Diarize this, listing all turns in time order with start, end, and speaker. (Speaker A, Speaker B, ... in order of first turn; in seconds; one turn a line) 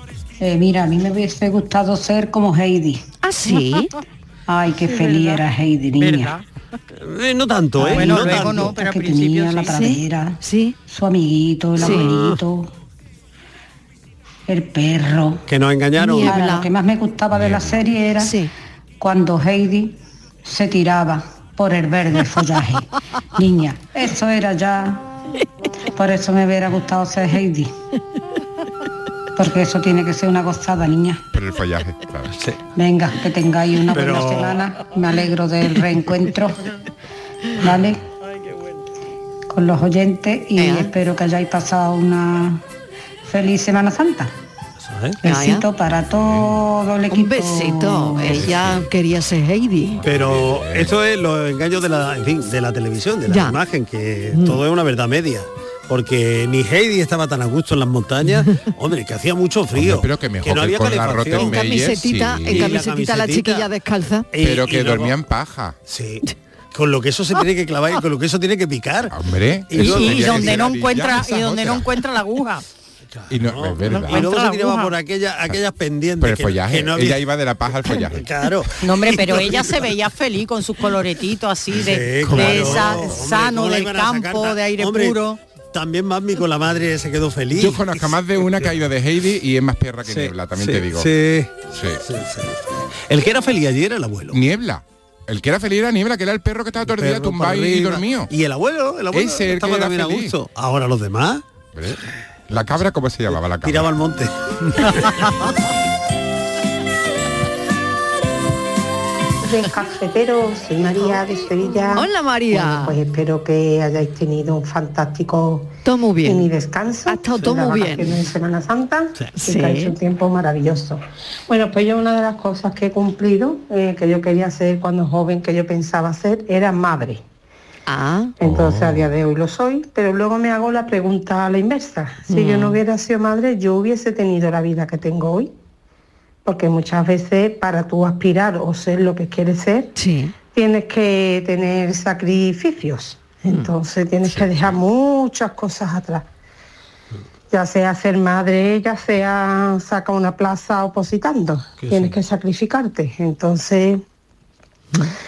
Speaker A: 0.4-3.0
Speaker B: 3.2-3.9
Speaker A: 4.5-6.3
Speaker C: 4.8-5.4
Speaker C: 6.0-6.4
Speaker D: 7.0-8.8
Speaker A: 7.8-12.7
Speaker C: 7.9-9.8
Speaker B: 9.7-10.7
Speaker D: 11.8-12.4
Speaker B: 11.8-12.1
Speaker A: 14.5-15.4
Speaker D: 15.5-16.4
Speaker B: 16.0-16.7
Speaker A: 16.2-18.4
Speaker E: 17.4-17.7
Speaker B: 18.2-18.5
Speaker A: 19.0-22.9
Speaker A: 23.4-25.0
Speaker A: 25.9-27.7
Speaker A: 29.4-31.2
Speaker E: 31.3-32.4
Speaker D: 32.3-32.6
Speaker A: 32.7-36.6
Speaker D: 33.9-34.6
Speaker A: 37.6-38.0
Speaker A: 39.5-42.6
Speaker B: 40.6-40.9
Speaker A: 43.2-44.3
Speaker D: 44.8-45.2
Speaker A: 45.2-48.5
Speaker B: 45.2-45.6
Speaker B: 47.1-50.0
Speaker E: 48.3-48.9
Speaker E: 50.0-50.9
Speaker D: 50.0-61.6
Speaker B: 53.3-53.6
Speaker B: 54.3-54.6
Speaker E: 59.7-62.8
Speaker B: 61.3-64.3
Speaker D: 62.4-63.7
Speaker D: 64.3-65.2
Speaker E: 64.4-65.8
Speaker D: 65.9-69.1
Speaker E: 69.1-71.8
Speaker D: 69.7-70.7
Speaker C: 69.8-72.6
Speaker D: 73.1-77.2
Speaker E: 73.3-74.3
Speaker C: 74.0-74.9
Speaker E: 76.2-78.3
Speaker D: 77.8-79.8
Speaker C: 78.8-85.4
Speaker D: 81.7-85.2
Speaker E: 82.3-83.2
Speaker D: 85.7-88.7
Speaker E: 87.5-91.1
Speaker D: 90.0-94.4
Speaker E: 91.7-92.0
Speaker E: 94.3-98.3
Speaker D: 96.8-101.4
Speaker E: 99.1-100.3
Speaker E: 101.7-104.0
Speaker D: 103.3-105.3
Speaker F: 109.4-115.7
Speaker B: 111.9-113.0
Speaker B: 115.8-116.5
Speaker F: 116.2-127.2
Speaker B: 117.1-118.2
Speaker B: 119.4-119.9
Speaker B: 127.9-128.3
Speaker F: 128.4-135.5
Speaker E: 128.4-129.1
Speaker B: 132.3-132.8
Speaker F: 136.4-139.9
Speaker B: 139.9-140.3
Speaker F: 140.5-146.2
Speaker B: 143.4-143.7
Speaker F: 147.5-154.0
Speaker D: 151.8-152.2